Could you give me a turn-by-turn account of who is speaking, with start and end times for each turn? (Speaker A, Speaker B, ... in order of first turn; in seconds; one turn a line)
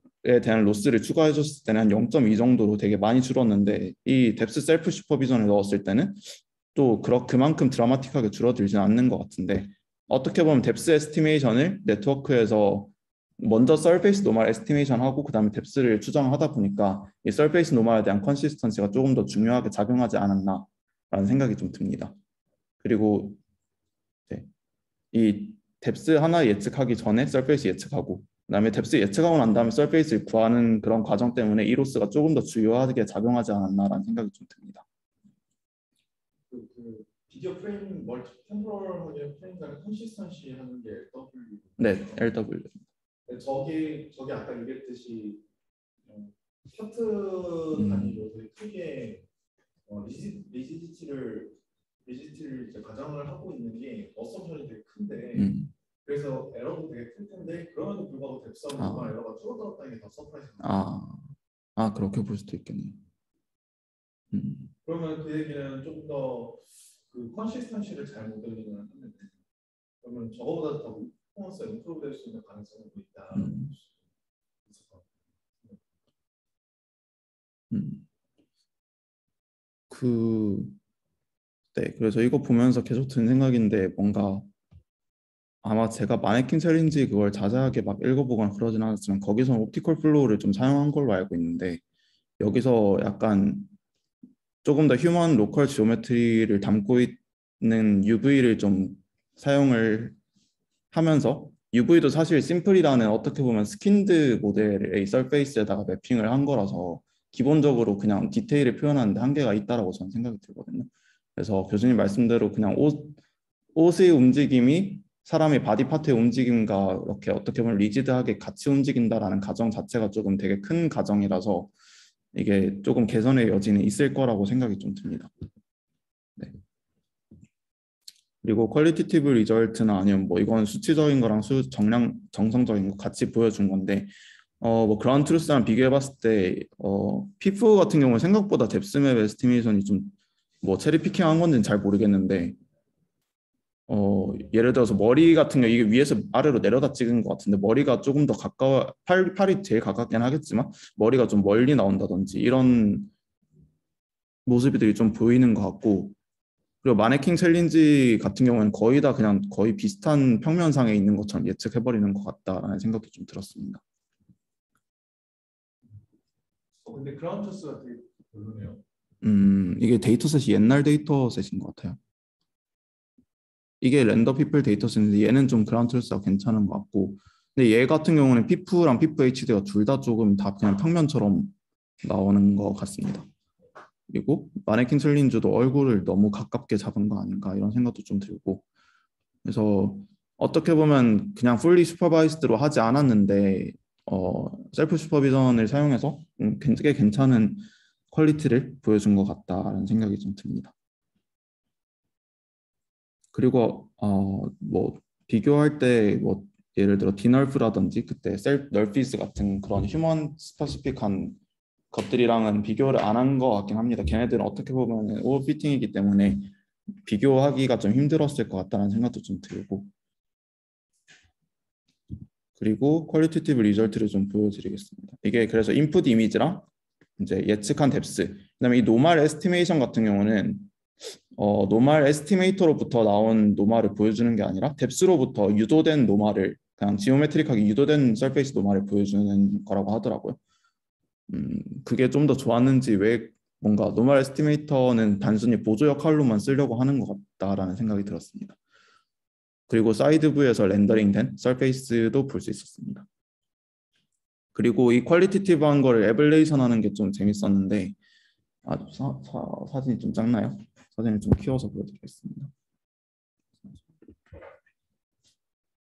Speaker A: 0.2-22.2
Speaker A: 22.8-23.4
Speaker A: 25.1-34.9
Speaker B: 36.5-42.2
Speaker A: 41.8-42.9
Speaker B: 43.3-45.4
Speaker B: 46.1-49.3
Speaker A: 47.8-48.2
Speaker B: 49.9-55.5
Speaker A: 55.4-55.7
Speaker B: 56.0-60.8
Speaker A: 58.8-59.1
Speaker A: 60.6-63.0
Speaker A: 64.3-64.7
Speaker B: 64.8-69.3
Speaker B: 70.0-73.9
Speaker A: 73.3-73.7
Speaker B: 74.7-75.1
Speaker A: 77.7-78.0
Speaker A: 79.9-80.8
Speaker A: 81.8-84.5
Speaker A: 85.6-91.8
Speaker A: 92.4-93.7
Speaker A: 94.6-100.2
Speaker A: 100.9-113.2
Speaker A: 113.8-121.7
Speaker A: 122.3-125.3
Speaker A: 128.4-142.6
Speaker A: 143.9-153.1
Speaker A: 154.5-156.2
Speaker A: 156.8-163.8
Speaker B: 166.8-168.8
Speaker A: 169.2-172.0
Speaker A: 173.8-183.3
Speaker A: 184.1-188.7
Speaker A: 189.4-200.7
Speaker A: 203.3-211.4
Speaker A: 211.9-216.5
Speaker A: 217.1-219.9
Speaker A: 222.6-226.7
Speaker A: 227.2-230.7
Speaker A: 231.3-240.4
Speaker A: 241.3-248.6
Speaker A: 249.7-253.1
Speaker A: 254.6-257.9
Speaker A: 258.7-262.5